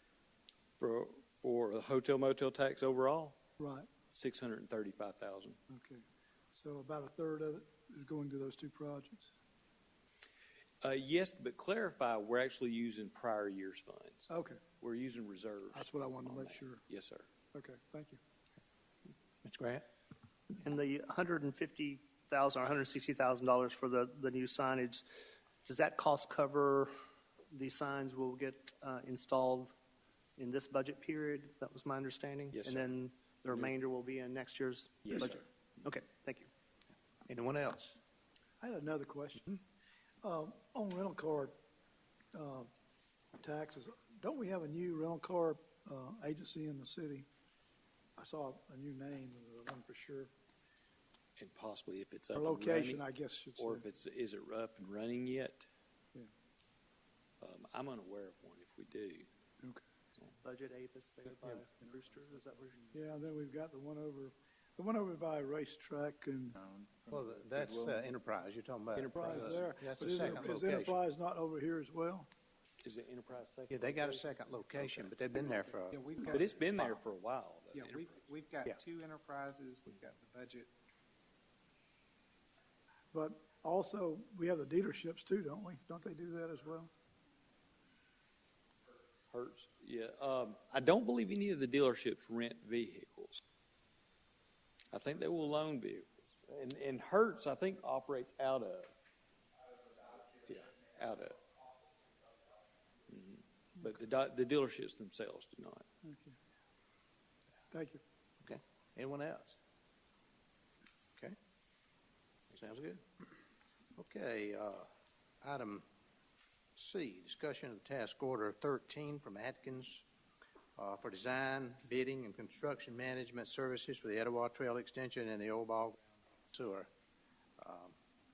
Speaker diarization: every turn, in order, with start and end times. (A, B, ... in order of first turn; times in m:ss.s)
0:00.8-0:03.4 A
0:03.6-0:03.9 B
0:04.1-0:05.6 A
0:05.7-0:06.0 B
0:06.5-0:09.3 B
0:10.8-0:14.3 A
0:14.3-0:14.6 B
0:14.8-0:17.3 A
0:15.7-0:16.8 B
0:17.5-0:18.2 B
0:19.4-0:19.9 C
0:20.6-0:25.0 D
0:25.6-0:26.9 D
0:27.5-0:29.7 D
0:30.4-0:36.5 D
0:32.5-0:32.9 A
0:35.0-0:35.4 A
0:37.2-0:38.0 C
0:38.6-0:39.6 B
0:40.2-0:41.6 B
0:42.3-0:42.7 B
0:43.4-0:47.3 B
0:48.2-0:50.3 B
0:51.4-0:53.0 A
0:52.3-0:53.8 B
0:53.6-0:55.7 A
0:57.4-0:59.3 A
1:00.4-1:02.9 D
1:02.9-1:06.6 B
1:07.1-1:11.0 C
1:08.9-1:09.7 A
1:09.1-1:12.3 B
1:12.8-1:15.1 A
1:13.7-1:16.0 C
1:15.5-1:16.9 E
1:16.3-1:18.2 A
1:17.7-1:20.7 E
1:23.1-1:26.9 B
1:29.3-1:33.4 A
1:34.9-1:38.9 A
1:40.3-1:41.4 A
1:43.1-1:45.8 A
1:46.0-1:46.4 B
1:47.7-1:48.0 B
1:48.4-1:49.6 C
1:52.5-1:53.2 C
1:54.0-1:54.9 C
1:55.4-1:55.8 C
1:56.7-2:00.0 C
2:00.8-2:06.9 C
2:07.6-2:07.9 C